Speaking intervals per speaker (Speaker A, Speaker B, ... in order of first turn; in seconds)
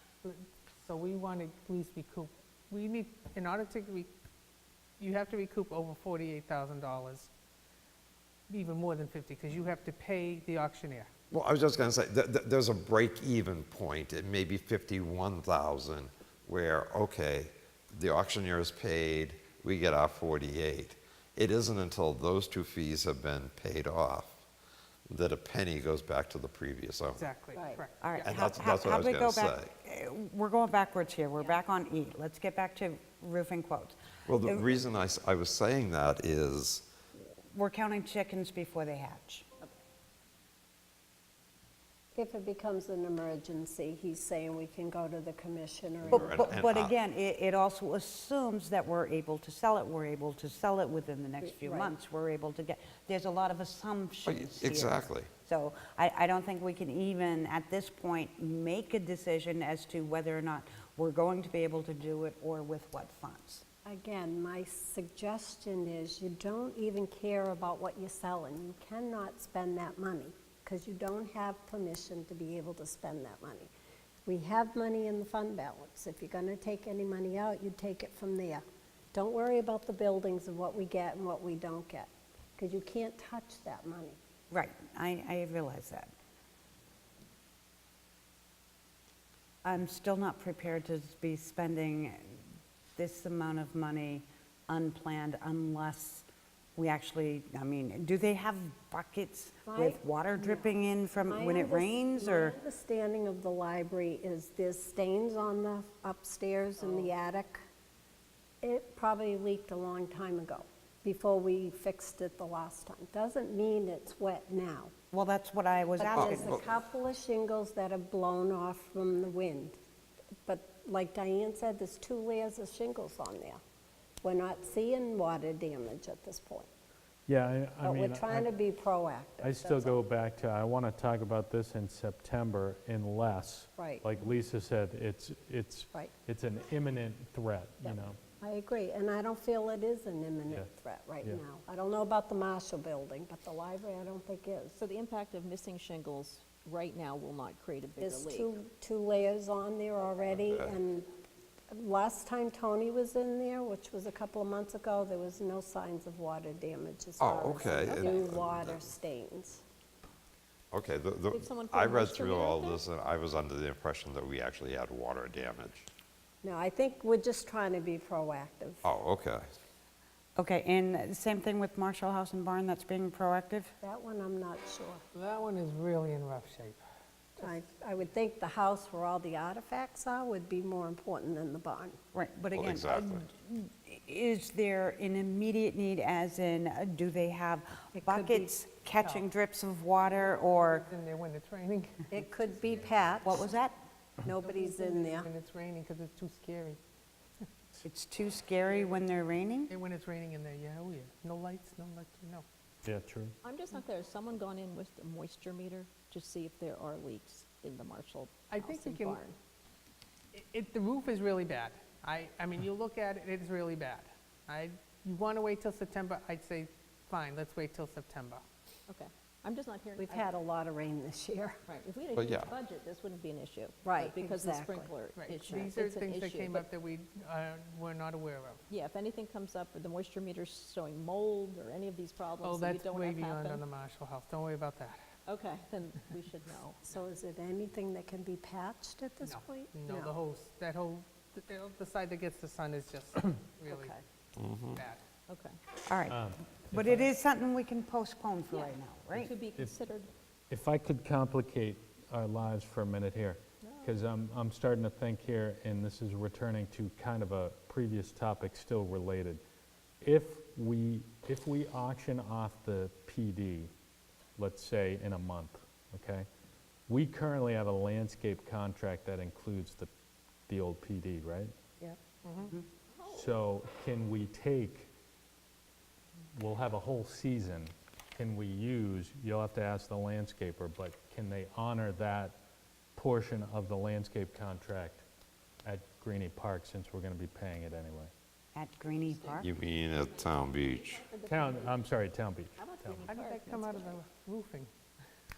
Speaker A: 0.2-4.1, 5.0-7.3, 8.5-11.1, 27.1-28.4, 175.1-176.8, 189.0-189.2, 190.2-192.2, 194.4-196.8, 199.7-202.4, 208.5-209.2, 210.3-218.4, 225.2-228.6, 232.4-235.0, 239.2-243.9, 244.7-245.0, 272.2-272.5, 293.1-294.7
Speaker B: 11.3-24.4, 25.1-27.3, 28.2-29.7, 34.3-36.9, 46.0-47.0, 54.2-55.3, 116.1-116.6, 150.3-150.8, 157.2-158.8, 160.7-165.9, 168.8-169.6, 182.5-183.3, 222.1-222.5, 244.4-244.8, 289.4-291.1
Speaker C: 27.6-27.8, 42.1-46.5, 51.6-51.9, 63.8-73.7, 74.2-78.6, 79.1-84.2, 99.7-100.7, 101.2-107.6, 108.6-114.9, 116.0-119.8, 120.5-123.6, 124.2-126.7, 127.8-130.0, 133.8-134.2, 137.8-144.8, 148.0-151.1, 151.7-159.6, 166.4-168.8, 173.8-175.0, 177.4-182.0, 188.0-188.5, 192.1-193.5, 194.2-195.3, 220.0-221.6, 223.8-224.9, 236.8-240.1
Speaker D: 28.0-34.8, 37.2-39.5, 46.1-63.6, 84.5-86.1, 89.6-102.6, 115.1-116.5, 170.4-173.7, 182.1-190.9, 193.2-193.8, 197.8-199.7, 245.9-249.3, 288.6-289.5
Speaker E: 127.3-128.5, 129.4-138.2, 202.8-203.3, 246.1-247.1, 250.5-259.4, 260.0-263.7, 264.4-266.3, 266.9-269.9, 270.5-271.5, 273.1-274.9, 276.3-282.4, 282.9-285.1, 285.6-288.1, 291.2-293.1
Speaker F: 144.8-148.5, 157.8-158.2, 161.3-162.8, 203.4-209.3, 218.9-220.2, 221.7-226.7, 228.7-233.6, 235.3-236.8, 243.7-244.0, 245.3-245.6, 248.5-250.1, 253.6-253.9, 289.1-291.8, 292.6-294.0